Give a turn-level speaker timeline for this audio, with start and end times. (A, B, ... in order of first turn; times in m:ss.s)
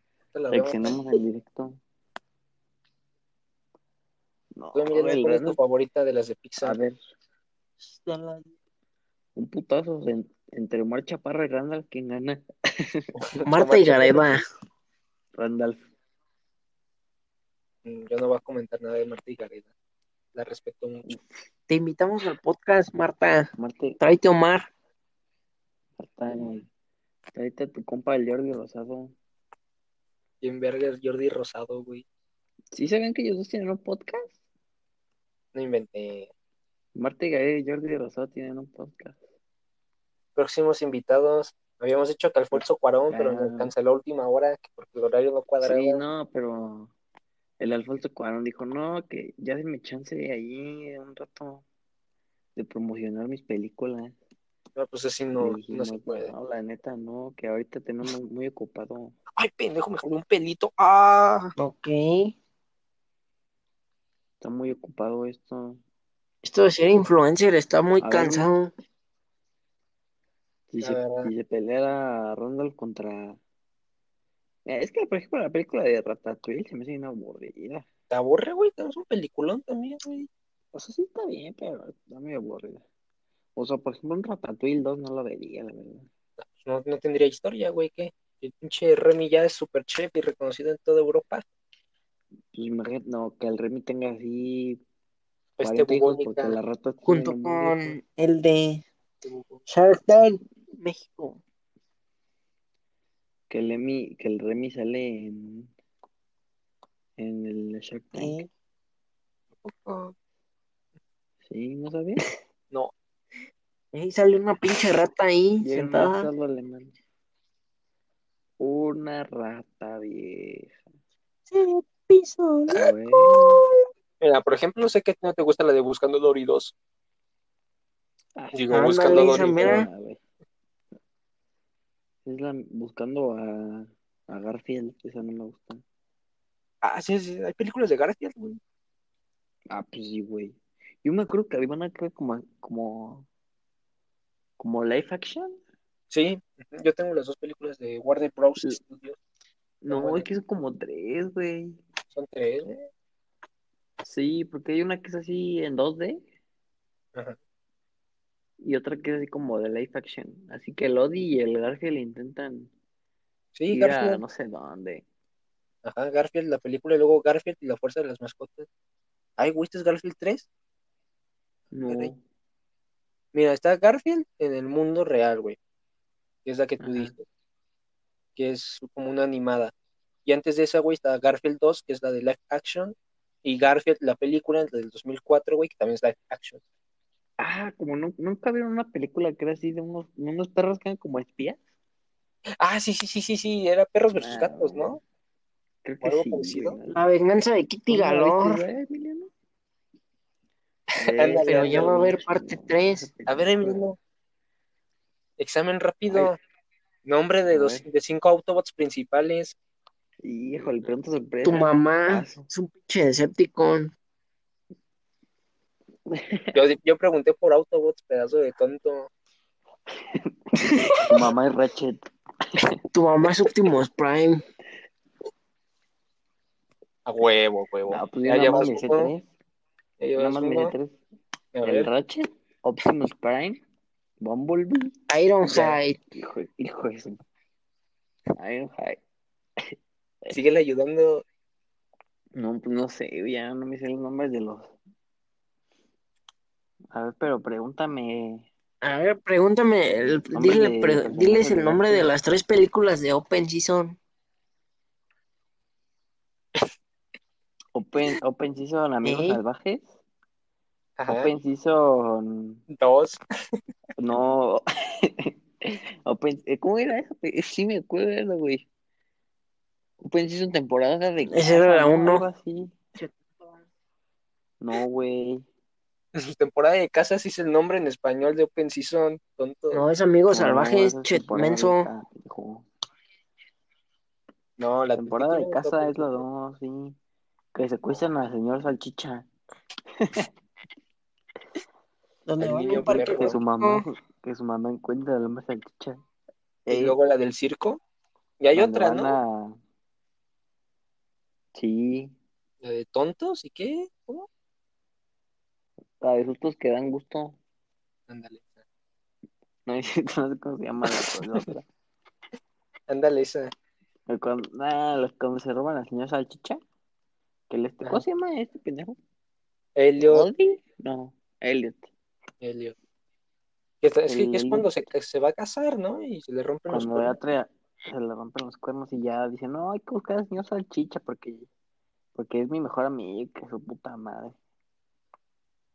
0:00.3-0:01.0 A
0:00.5-0:01.8 B
0:04.6-0:05.6 B
0:04.8-0:06.8 A
0:06.6-0:07.0 B
0:07.8-0:08.5 C
0:09.4-0:13.1 B
0:13.2-0:14.4 A
0:13.4-0:14.4 C
0:15.3-0:15.8 B
0:17.8-0:19.7 A
0:20.3-0:21.2 A
0:21.7-0:24.7 C
0:23.6-0:24.0 B
0:26.0-0:26.7 B
0:27.3-0:29.2 B
0:30.4-0:32.0 A
0:32.7-0:34.4 B
0:35.5-0:36.3 A
0:37.0-0:39.2 B
0:40.4-0:46.0 A
0:43.1-0:43.7 B
0:45.6-0:46.9 B
0:47.6-0:51.6 B
0:52.6-0:54.2 B
0:54.8-0:56.3 A
0:55.4-0:59.2 B
0:59.4-1:01.5 A
1:01.6-1:02.4 C
1:04.4-1:05.8 B
1:06.4-1:08.7 C
1:08.0-1:08.5 B
1:10.7-1:13.4 B
1:10.8-1:11.3 A
1:14.6-1:17.9 B
1:18.1-1:20.3 A
1:20.7-1:22.8 B
1:23.6-1:26.1 B
1:26.5-1:31.4 A
1:32.5-1:34.8 B
1:35.6-1:36.6 A
1:35.6-1:38.0 B
1:37.1-1:38.8 C
1:39.2-1:39.6 A
1:39.7-1:41.4 C
1:43.5-1:45.7 B
1:47.2-1:48.4 B
1:48.1-1:48.5 C
1:49.6-1:50.1 A
1:51.4-1:52.2 B
1:53.9-1:56.3 C
1:55.6-1:56.9 B
1:58.6-2:00.8 B
2:01.5-2:03.7 C
2:02.7-2:03.6 B
2:04.2-2:06.7 A
2:08.4-2:10.2 B
2:08.5-2:09.8 A
2:08.7-2:09.9 C
2:12.2-2:15.8 B
2:16.8-2:18.6 A
2:19.7-2:23.3 B
2:24.6-2:25.6 B
2:26.1-2:29.2 A
2:29.8-2:31.8 B
2:29.9-2:30.3 A
2:32.1-2:32.8 A
2:34.0-2:36.2 B
2:38.6-2:42.7 B
2:43.6-2:44.2 A
2:43.7-2:45.0 B
2:45.8-2:48.7 A
2:49.4-2:50.5 A
2:51.7-2:52.2 B
2:51.9-2:52.1 A
2:53.3-2:55.6 A
2:56.4-2:57.2 A
2:58.4-2:59.7 A
3:00.2-3:06.6 A
3:07.4-3:11.6 B
3:12.6-3:15.0 A
3:14.1-3:15.0 B
3:15.8-3:17.0 B
3:16.0-3:16.8 A
3:16.9-3:18.6 C
3:17.9-3:19.3 B
3:21.0-3:22.1 A
3:21.0-3:23.9 B
3:21.4-3:23.1 C
3:23.3-3:24.0 A
3:25.4-3:26.4 A
3:27.0-3:29.6 A
3:27.5-3:27.9 B
3:30.2-3:32.4 B
3:31.4-3:33.9 C
3:36.1-3:36.6 B
3:36.5-3:39.1 A
3:39.9-3:40.3 B
3:41.0-3:42.0 B
3:42.9-3:44.4 C
3:47.1-3:49.1 A
3:47.9-3:49.3 B
3:50.0-3:50.7 A
3:50.2-3:51.0 B
3:51.5-3:51.9 A
3:51.6-3:53.6 B
3:54.2-3:54.9 B
3:55.1-3:56.0 C
3:55.5-3:57.2 B
3:58.4-3:59.0 B
3:59.6-4:00.4 B
4:00.3-4:01.2 A
4:02.4-4:04.8 B
4:06.9-4:08.5 B
4:08.8-4:14.0 C
4:09.9-4:12.1 B
4:17.7-4:19.9 B
4:19.0-4:19.4 C
4:21.0-4:21.3 A
4:21.1-4:22.6 B
4:22.7-4:23.2 A
4:24.0-4:28.7 B
4:30.0-4:32.8 B
4:31.3-4:32.2 C
4:33.0-4:33.6 C
4:34.6-4:35.5 B
4:36.2-4:39.8 A
4:39.7-4:41.9 C
4:40.3-4:42.7 B
4:44.6-4:46.2 A
4:45.0-4:47.0 B
4:47.5-4:49.3 B
4:50.0-4:50.3 B
4:52.3-4:53.9 C
4:52.4-4:53.4 A
4:52.7-4:56.0 B
4:56.7-4:57.0 B
4:56.7-4:57.8 A
4:58.4-4:59.2 A
4:58.5-4:59.6 B
5:01.5-5:02.2 B
5:02.6-5:04.3 A
5:06.0-5:07.4 B
5:08.1-5:08.5 A
5:09.7-5:11.7 B
5:11.0-5:11.5 A
5:12.9-5:13.5 A
5:14.1-5:16.6 B
5:17.5-5:19.0 B
5:19.8-5:20.3 A
5:20.0-5:21.9 B
5:22.4-5:22.8 A
5:23.8-5:27.2 A
5:24.1-5:24.7 B
5:26.7-5:31.5 B
5:32.2-5:34.4 B